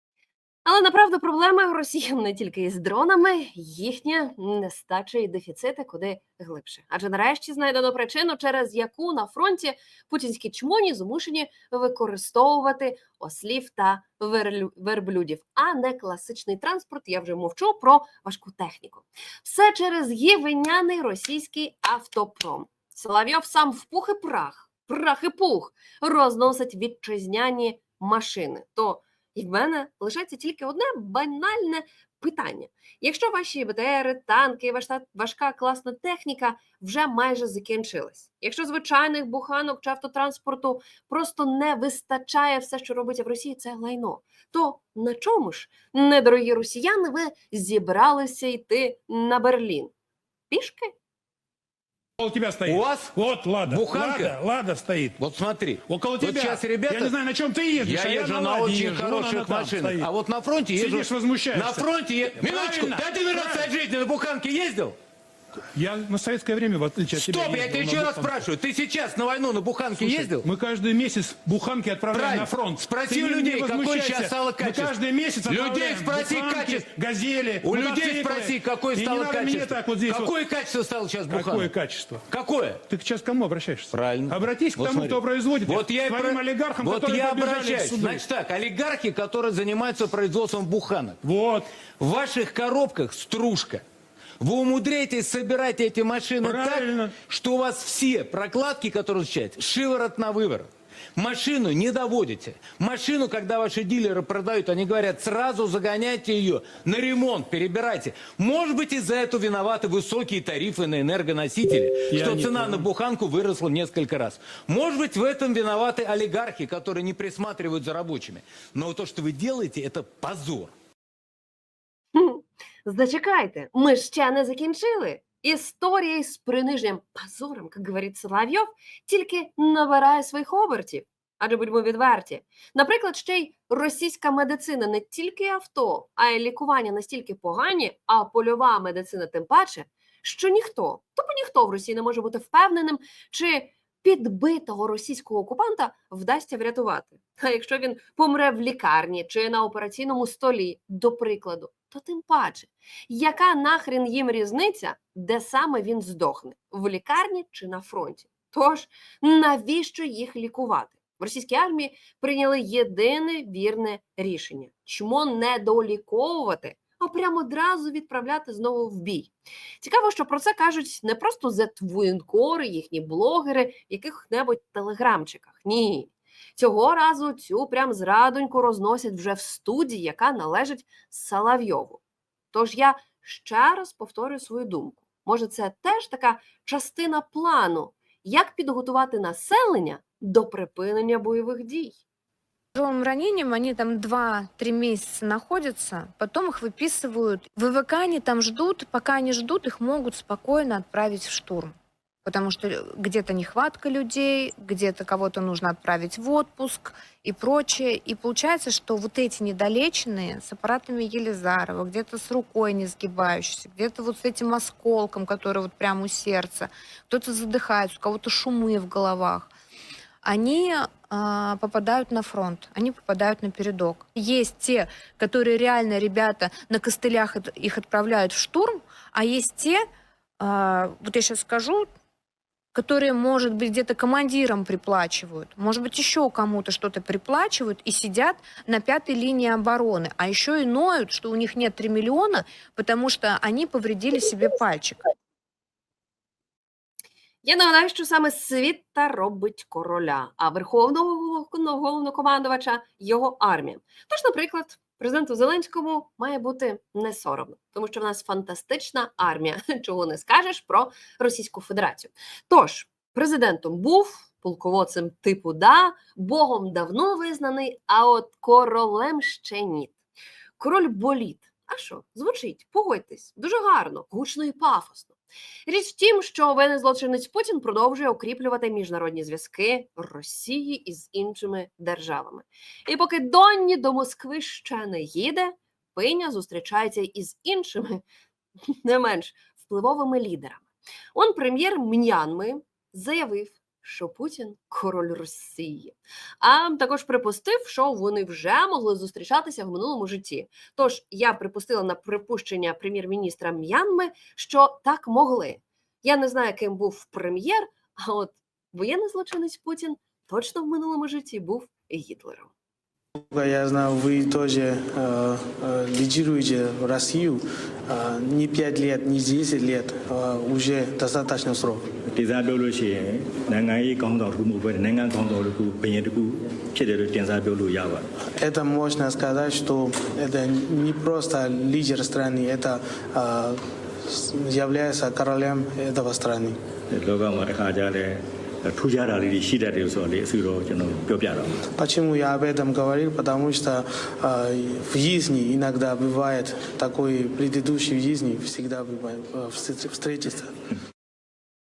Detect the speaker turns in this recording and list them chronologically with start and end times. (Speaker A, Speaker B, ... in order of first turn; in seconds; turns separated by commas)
Speaker A: 0.6-49.9, Speaker A: 50.5-50.9, Speaker B: 52.2-55.1, Speaker C: 52.6-53.1, Speaker C: 53.7-54.3, Speaker C: 55.2-57.1, Speaker B: 55.9-60.1, Speaker C: 57.8-65.0, Speaker B: 60.7-63.7, Speaker B: 65.7-68.4, Speaker C: 67.1-70.5, Speaker B: 70.0-80.3, Speaker C: 72.1-76.9, Speaker C: 77.6-81.7, Speaker B: 81.3-82.2, Speaker C: 82.3-82.8, Speaker B: 82.9-88.2, Speaker C: 83.9-91.2, Speaker B: 91.2-91.7, Speaker C: 92.0-93.8, Speaker C: 94.4-120.7, Speaker B: 96.4-97.1, Speaker B: 112.1-112.9, Speaker A: 122.1-182.0, Speaker A: 182.5-192.0, Speaker D: 192.8-201.7, Speaker D: 202.2-219.5, Speaker D: 220.2-229.8, Speaker D: 230.4-231.9, Speaker D: 232.7-245.1, Speaker A: 247.4-270.0, Speaker A: 270.6-275.1, Speaker A: 275.6-288.0, Speaker A: 288.7-312.5, Speaker E: 313.1-321.9, Speaker F: 322.1-328.0, Speaker E: 328.3-336.6, Speaker F: 336.9-341.6, Speaker E: 341.7-350.6